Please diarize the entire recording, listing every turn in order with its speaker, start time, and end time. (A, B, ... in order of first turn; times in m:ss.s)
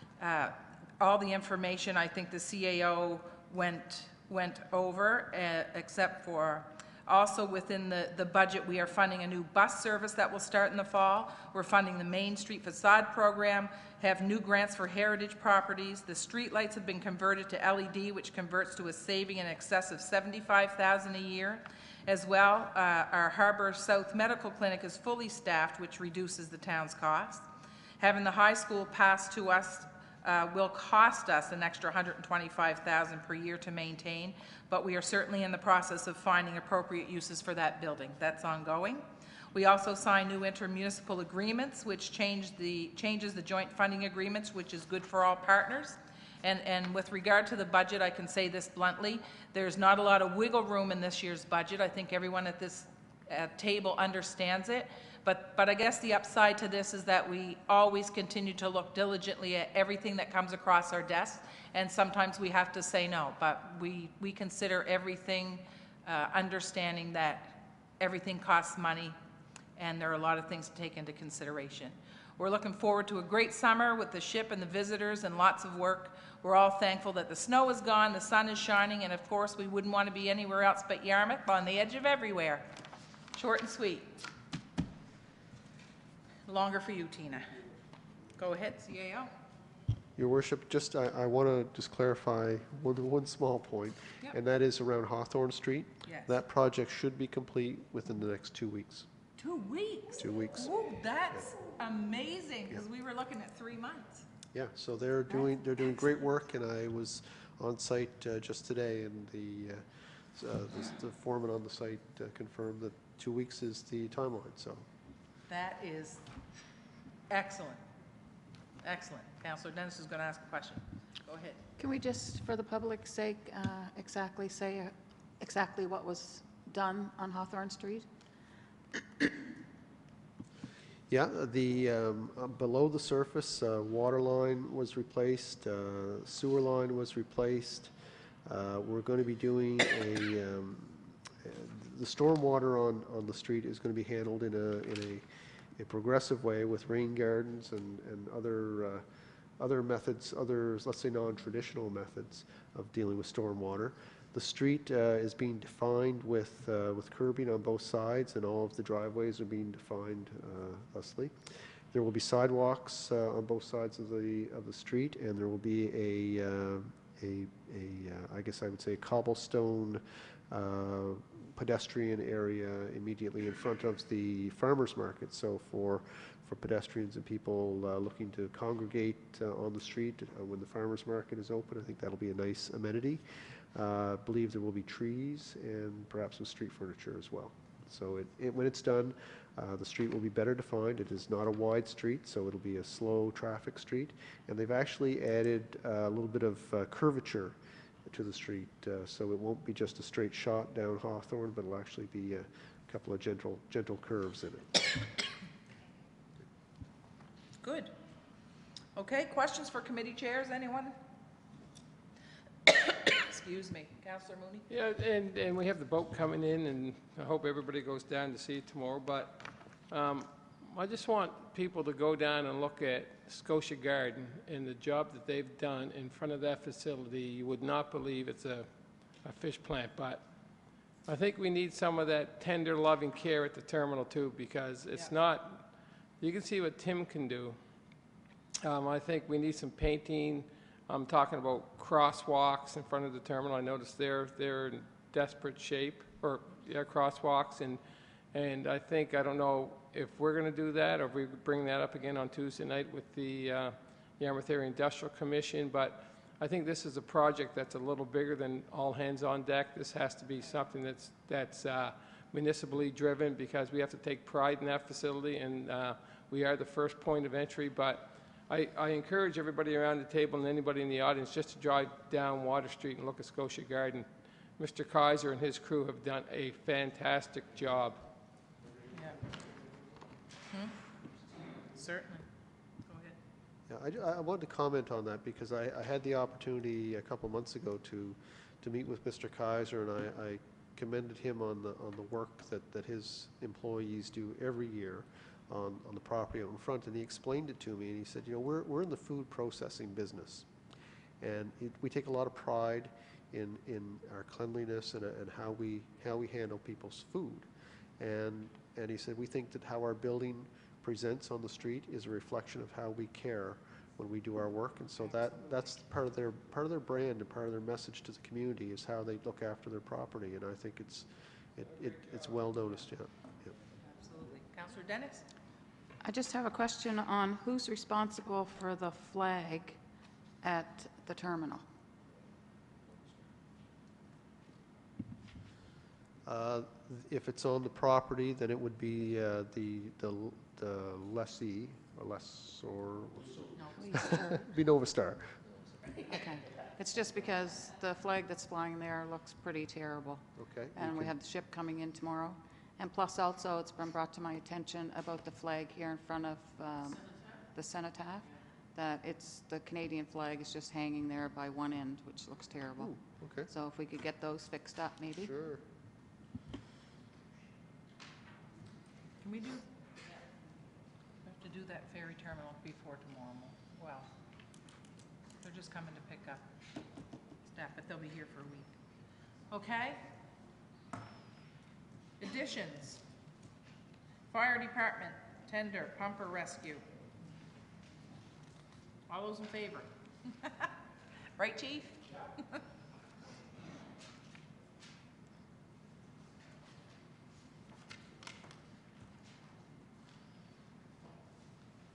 0:00.2-0:27.4 A
0:28.0-1:09.2 A
1:09.8-1:22.7 A
1:23.3-1:24.2 A
1:26.5-1:27.5 A
1:28.4-1:29.3 A
1:30.2-1:39.1 B
1:36.1-1:36.3 A
1:39.4-1:44.2 A
1:40.1-1:40.8 B
1:44.5-1:54.8 B
1:55.5-1:56.2 A
1:57.3-1:57.8 A
1:58.8-2:01.6 A
2:01.8-2:08.1 C
2:11.1-2:17.9 B
2:18.4-2:25.2 B
2:25.8-2:29.0 B
2:29.6-3:03.2 B
3:03.7-3:24.8 B
3:27.6-3:27.9 A
3:29.0-3:31.0 A
3:32.7-3:34.7 A
3:34.7-3:58.0 D
3:58.6-4:38.2 D
4:41.7-4:42.2 A
4:42.9-4:43.2 A
4:43.7-5:00.5 B
5:01.2-5:07.5 B
5:08.0-5:23.5 B
5:15.1-5:15.4 A
5:24.0-5:25.3 A
5:26.0-5:29.8 C
5:30.4-5:31.6 C
5:36.2-5:45.4 B
5:43.6-5:44.4 C
5:46.0-6:03.0 C
5:50.4-5:51.1 B
6:02.8-6:03.5 B
6:03.5-6:05.3 C
6:05.2-6:05.6 B
6:09.2-6:09.6 A
6:11.2-6:14.1 A
6:15.4-6:16.5 A
6:17.5-6:18.7 A
6:19.5-6:20.1 A
6:22.2-6:23.0 A
6:24.3-6:26.8 A
6:29.1-6:30.7 A
6:31.4-6:32.6 A